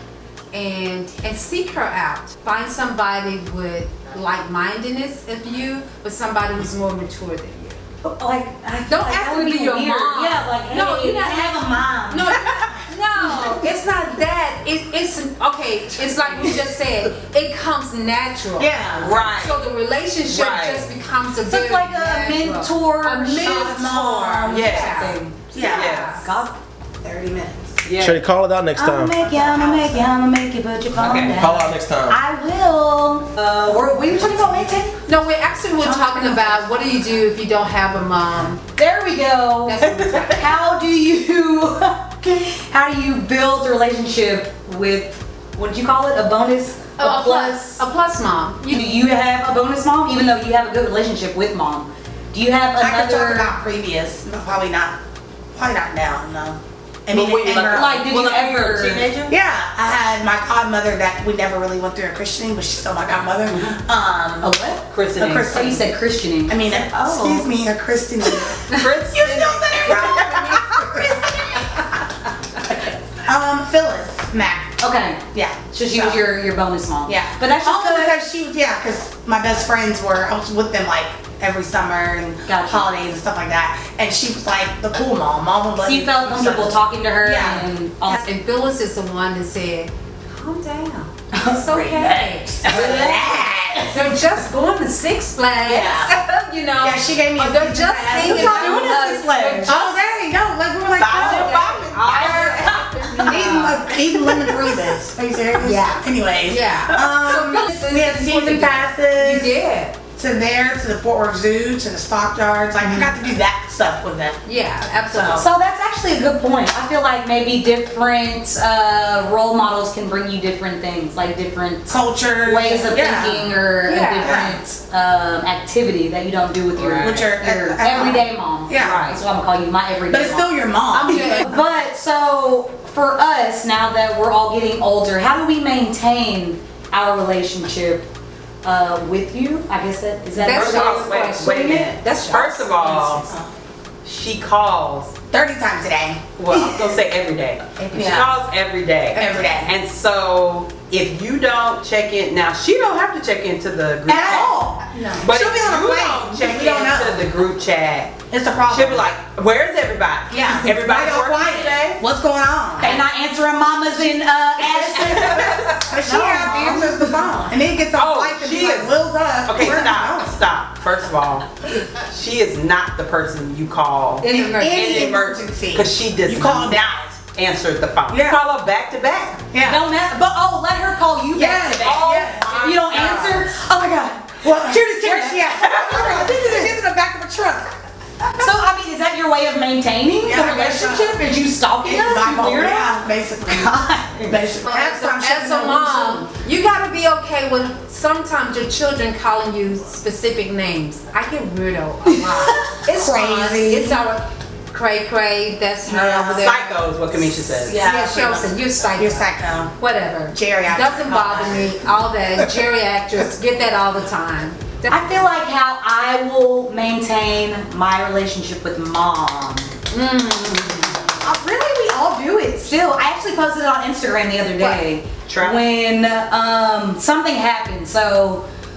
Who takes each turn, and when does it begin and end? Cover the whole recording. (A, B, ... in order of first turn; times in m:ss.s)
0:00.5-0:07.8 A
0:08.0-0:12.3 B
0:08.9-0:26.3 A
0:12.3-0:12.6 C
0:18.6-0:19.1 D
0:19.0-0:19.6 C
0:20.3-0:20.9 C
0:21.5-0:26.6 B
0:23.4-0:24.7 D
0:24.5-0:25.0 C
0:25.5-0:26.0 D
0:25.6-0:26.2 C
0:27.0-0:27.8 D
0:27.8-0:28.3 C
0:28.0-0:29.1 E
0:28.7-0:35.0 B
0:29.2-0:30.1 D
0:31.0-0:31.5 C
0:31.2-0:32.2 E
0:35.0-0:38.6 A
0:35.8-0:37.0 D
0:38.8-0:39.8 B
0:39.7-0:40.4 A
0:39.9-0:40.3 C
0:40.3-0:47.8 B
0:47.0-0:49.0 A
0:48.7-0:53.6 B
0:52.8-0:55.0 D
0:55.5-0:58.1 D
0:57.1-0:59.4 C
0:57.7-0:59.2 B
0:59.3-1:04.6 D
1:03.5-1:03.8 C
1:04.4-1:07.5 B
1:04.9-1:05.7 C
1:05.2-1:11.7 D
1:08.7-1:10.5 C
1:09.9-1:11.1 A
1:13.2-1:14.8 D
1:14.8-1:18.2 B
1:15.3-1:16.2 D
1:17.1-1:28.2 D
1:22.5-1:22.9 B
1:25.8-1:28.3 B
1:28.2-1:33.2 A
1:31.3-1:31.6 B
1:31.4-1:34.1 D
1:32.6-1:33.4 B
1:33.9-1:39.9 A
1:35.6-1:36.2 D
1:36.8-1:39.0 D
1:38.2-1:39.8 B
1:39.7-1:49.5 D
1:41.0-1:42.8 C
1:41.1-1:44.0 A
1:43.1-1:43.5 B
1:43.5-1:43.8 C
1:45.6-1:50.0 A
1:46.9-1:47.3 C
1:47.3-1:47.7 B
1:50.2-1:54.4 D
1:52.8-1:53.1 A
1:54.4-1:55.5 A
1:55.1-1:55.5 D
1:55.4-2:18.1 B
2:01.9-2:03.5 D
2:03.8-2:04.4 A
2:04.2-2:04.6 D
2:06.8-2:07.3 C
2:07.0-2:09.0 D
2:08.8-2:09.2 C
2:10.1-2:11.6 D
2:10.9-2:11.5 A
2:18.6-2:22.0 B
2:20.4-2:23.3 A
2:20.5-2:23.3 C
2:24.0-2:25.1 C
2:25.3-2:26.8 D
2:26.4-2:42.0 C
2:27.8-2:28.3 A
2:27.9-2:28.4 D
2:29.2-2:29.7 D
2:34.1-2:37.3 D
2:38.3-2:39.1 D
2:40.3-2:43.0 D
2:42.8-2:47.5 B
2:43.9-2:45.9 C
2:45.0-2:50.4 D
2:48.0-2:48.9 C
2:49.5-2:59.5 C
2:54.2-2:55.0 A
2:54.3-2:57.1 D
2:58.1-2:58.4 D
2:59.5-2:59.8 D
2:59.6-3:06.7 B
3:01.3-3:02.5 D
3:01.7-3:03.5 C
3:04.4-3:07.7 D
3:05.7-3:06.5 C
3:08.4-3:14.5 B
3:10.2-3:11.2 D
3:11.8-3:16.2 D
3:14.6-3:35.0 A
3:22.2-3:22.8 B
3:22.9-3:24.0 D
3:25.9-3:26.4 D
3:26.4-3:27.9 C
3:27.7-3:29.7 D
3:30.3-3:31.8 D
3:34.9-3:39.7 B
3:39.9-3:41.2 A
3:41.2-3:48.5 B
3:44.6-3:44.8 A
3:45.3-3:45.7 C